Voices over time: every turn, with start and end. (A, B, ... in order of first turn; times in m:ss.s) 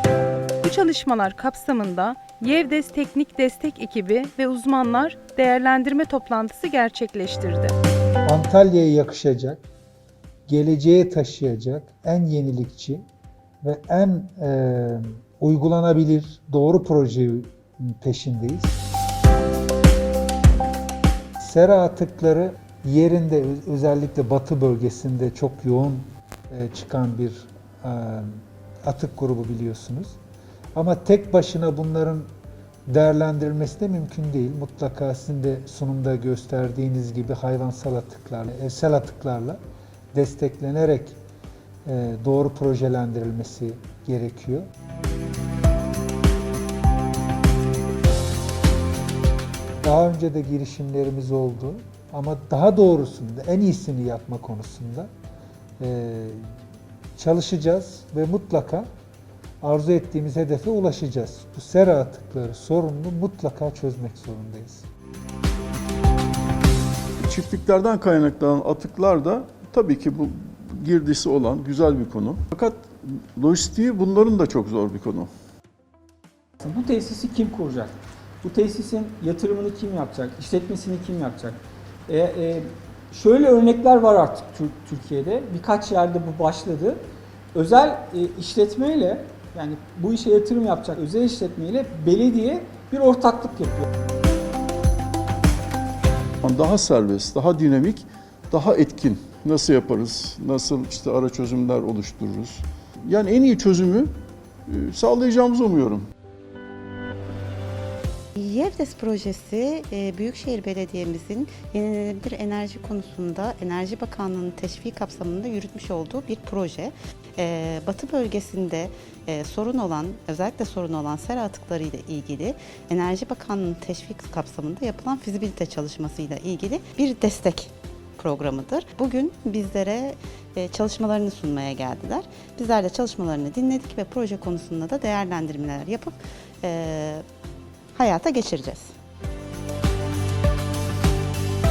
0:00.6-0:07.7 A
0:08.2-0:09.6 B
0:10.5-0:13.0 B
0:13.6-0:18.8 B
0:21.4-0:30.2 B
0:30.8-0:32.3 B
0:32.9-0:39.6 B
0:40.1-0:41.2 B
0:41.8-0:44.7 B
0:49.8-0:55.1 B
0:55.8-0:56.5 B
0:57.2-0:58.9 B
0:59.6-1:04.8 B
1:07.2-1:15.3 C
1:16.6-1:33.8 D
1:36.4-1:44.1 C
1:44.7-1:46.0 C
1:48.4-2:17.2 E
2:17.9-2:18.9 E